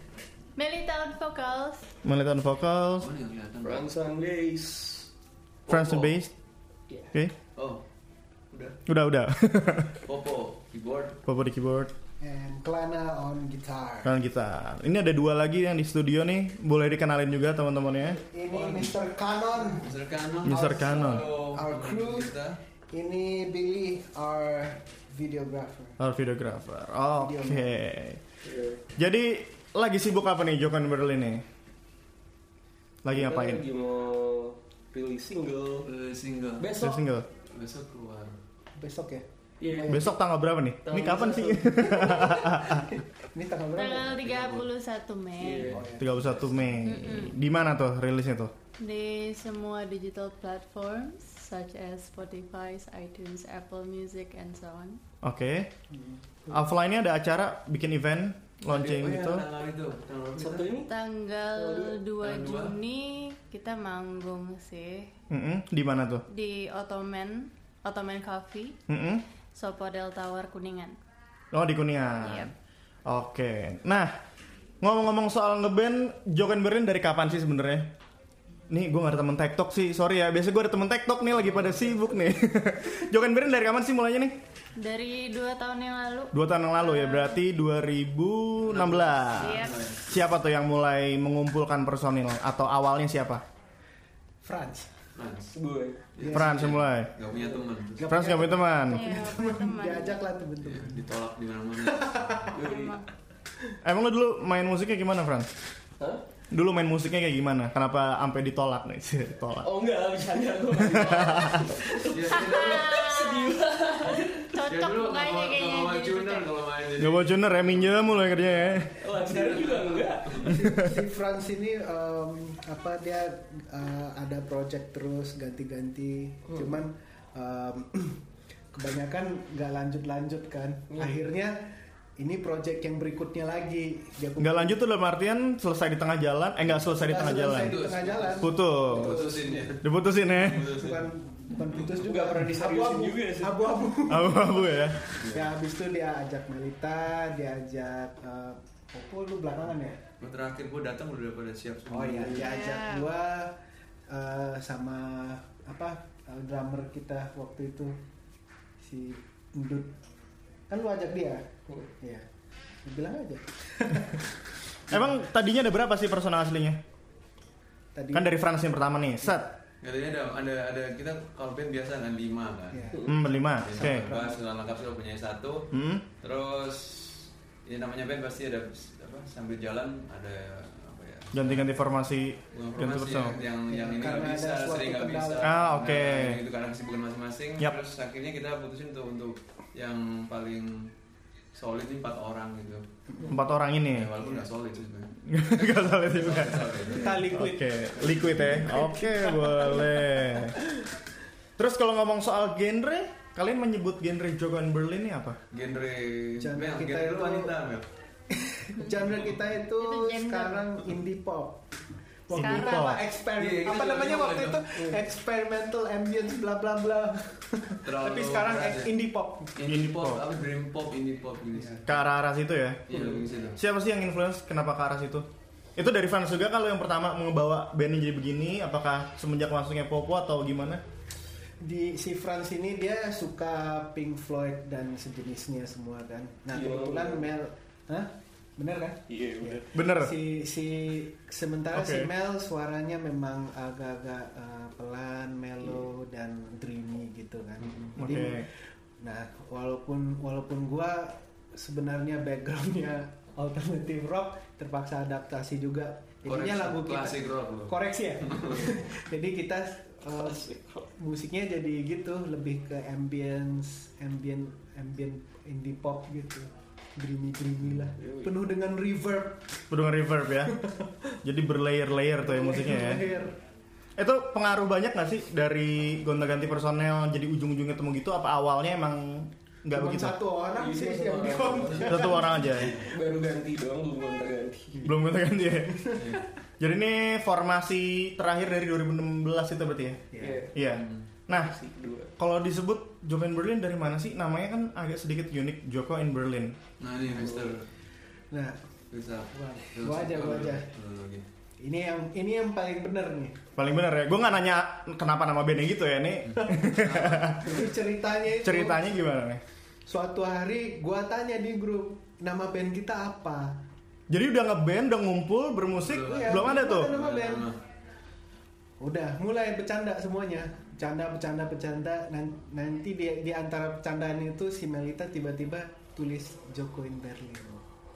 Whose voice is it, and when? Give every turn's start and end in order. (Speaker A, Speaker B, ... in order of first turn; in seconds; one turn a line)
Speaker A: 0.6-1.8
Speaker B: 2.0-3.1
Speaker C: 3.0-3.9
Speaker D: 3.6-5.1
Speaker B: 5.7-6.3
Speaker D: 5.7-6.2
Speaker C: 7.5-7.8
Speaker C: 8.5-8.8
Speaker B: 8.8-10.0
Speaker C: 10.0-11.2
Speaker B: 11.2-11.9
Speaker E: 12.2-14.1
Speaker B: 14.0-18.2
Speaker E: 18.0-19.9
Speaker C: 18.5-22.6
Speaker B: 20.4-21.3
Speaker E: 20.4-22.3
Speaker E: 22.9-26.0
Speaker B: 26.0-28.2
Speaker E: 27.1-27.8
Speaker D: 28.4-28.8
Speaker B: 28.9-31.4
Speaker B: 33.0-33.6
Speaker D: 33.1-35.9
Speaker C: 35.9-36.7
Speaker D: 36.6-37.0
Speaker B: 36.8-37.2
Speaker C: 37.5-38.4
Speaker E: 38.8-40.0
Speaker D: 39.6-40.1
Speaker B: 39.9-42.9
Speaker D: 40.8-42.0
Speaker E: 41.9-44.2
Speaker A: 43.7-45.7
Speaker C: 44.1-44.7
Speaker D: 45.4-45.8
Speaker E: 45.6-46.7
Speaker B: 46.0-48.5
Speaker A: 46.8-47.4
Speaker A: 48.8-55.0
Speaker B: 55.2-55.7
Speaker E: 55.9-56.6
Speaker B: 56.5-59.5
Speaker C: 58.7-60.8
Speaker D: 60.3-60.9
Speaker A: 60.8-65.1
Speaker D: 61.5-62.0
Speaker C: 62.2-62.8
Speaker B: 65.3-66.2
Speaker A: 66.3-68.8
Speaker B: 68.9-69.2
Speaker A: 69.5-71.0
Speaker B: 71.5-72.5
Speaker A: 72.2-72.5
Speaker B: 73.0-74.1
Speaker B: 74.8-77.9
Speaker B: 78.7-84.4
Speaker A: 84.8-87.4
Speaker B: 86.3-93.4
Speaker C: 88.7-90.0
Speaker A: 89.4-89.9
Speaker E: 94.4-94.9
Speaker C: 95.1-95.5
Speaker D: 95.5-96.0
Speaker C: 96.1-98.1
Speaker E: 96.2-96.7
Speaker B: 96.3-97.1
Speaker D: 97.3-97.6
Speaker E: 98.0-101.0
Speaker B: 98.1-99.2
Speaker A: 98.8-100.2
Speaker C: 100.6-102.9
Speaker E: 101.8-102.5
Speaker D: 102.5-102.9
Speaker A: 102.6-103.1
Speaker B: 103.8-105.5
Speaker B: 106.5-109.7
Speaker D: 109.6-114.6
Speaker B: 110.8-111.8
Speaker C: 112.0-113.2
Speaker A: 112.3-113.5
Speaker A: 114.5-116.5
Speaker C: 114.6-120.5
Speaker B: 117.0-118.9
Speaker D: 118.9-120.5
Speaker E: 120.5-128.2
Speaker B: 120.5-120.9
Speaker E: 128.7-134.8
Speaker B: 134.4-137.8
Speaker E: 137.0-139.8
Speaker C: 137.3-141.9
Speaker B: 138.4-139.2
Speaker B: 139.8-140.7
Speaker E: 140.7-150.0
Speaker D: 142.0-143.7
Speaker B: 144.1-145.1
Speaker C: 145.2-145.5
Speaker C: 150.2-152.6
Speaker E: 151.9-153.5
Speaker E: 154.1-157.9
Speaker E: 158.8-159.9
Speaker E: 160.7-161.4
Speaker E: 162.0-162.3
Speaker E: 162.8-164.3
Speaker E: 164.9-165.2
Speaker B: 164.9-166.8
Speaker E: 167.9-168.4
Speaker B: 168.1-169.5
Speaker C: 169.8-173.0
Speaker E: 172.7-173.1
Speaker B: 173.1-174.1
Speaker C: 173.6-175.7
Speaker E: 173.8-174.4
Speaker B: 175.7-176.0
Speaker C: 176.2-181.8
Speaker B: 181.3-183.3
Speaker C: 182.5-190.9
Speaker E: 183.7-185.5
Speaker B: 185.4-186.4
Speaker C: 191.5-192.8
Speaker E: 193.1-193.4
Speaker B: 193.3-194.1
Speaker C: 193.8-197.3
Speaker B: 195.2-200.6
Speaker E: 196.9-200.0
Speaker B: 201.6-205.4
Speaker C: 205.5-207.8
Speaker E: 206.4-207.5
Speaker E: 208.3-211.6
Speaker A: 209.8-210.7
Speaker E: 212.3-219.5
Speaker A: 212.3-212.9
Speaker B: 212.3-213.0
Speaker C: 213.4-214.8
Speaker C: 217.8-218.9
Speaker C: 219.5-221.8
Speaker B: 219.6-220.2
Speaker E: 221.5-221.8
Speaker B: 221.8-222.8
Speaker C: 222.9-223.6
Speaker B: 223.5-230.8
Speaker E: 231.6-269.4
Speaker D: 236.5-237.3
Speaker D: 239.1-239.7
Speaker B: 239.7-240.2
Speaker B: 241.7-242.1
Speaker C: 247.6-247.9
Speaker B: 248.0-248.5
Speaker C: 256.2-258.6
Speaker D: 260.1-260.9
Speaker D: 267.9-268.3
Speaker B: 269.7-270.6
Speaker E: 270.5-271.1
Speaker B: 271.2-273.1
Speaker E: 272.2-273.4
Speaker B: 274.0-280.2
Speaker E: 279.7-282.5
Speaker D: 280.6-282.2
Speaker C: 281.5-282.9
Speaker B: 281.9-282.8
Speaker D: 282.7-284.8
Speaker E: 284.7-285.0
Speaker B: 284.8-286.0
Speaker E: 285.7-286.2
Speaker C: 285.9-286.2
Speaker B: 286.6-290.0
Speaker E: 290.1-290.4
Speaker D: 290.2-290.5
Speaker B: 290.5-291.5
Speaker C: 290.7-291.1
Speaker D: 291.3-292.1
Speaker B: 292.2-296.6
Speaker C: 296.8-297.7
Speaker D: 297.1-297.5
Speaker E: 298.3-298.6
Speaker C: 298.9-301.2
Speaker E: 299.3-300.6
Speaker E: 301.6-303.4
Speaker B: 303.6-307.5
Speaker C: 306.2-307.7
Speaker E: 306.4-308.8
Speaker B: 308.4-309.4
Speaker E: 309.9-313.6
Speaker B: 314.1-317.0
Speaker C: 315.8-317.6
Speaker E: 316.1-317.5
Speaker E: 318.8-327.6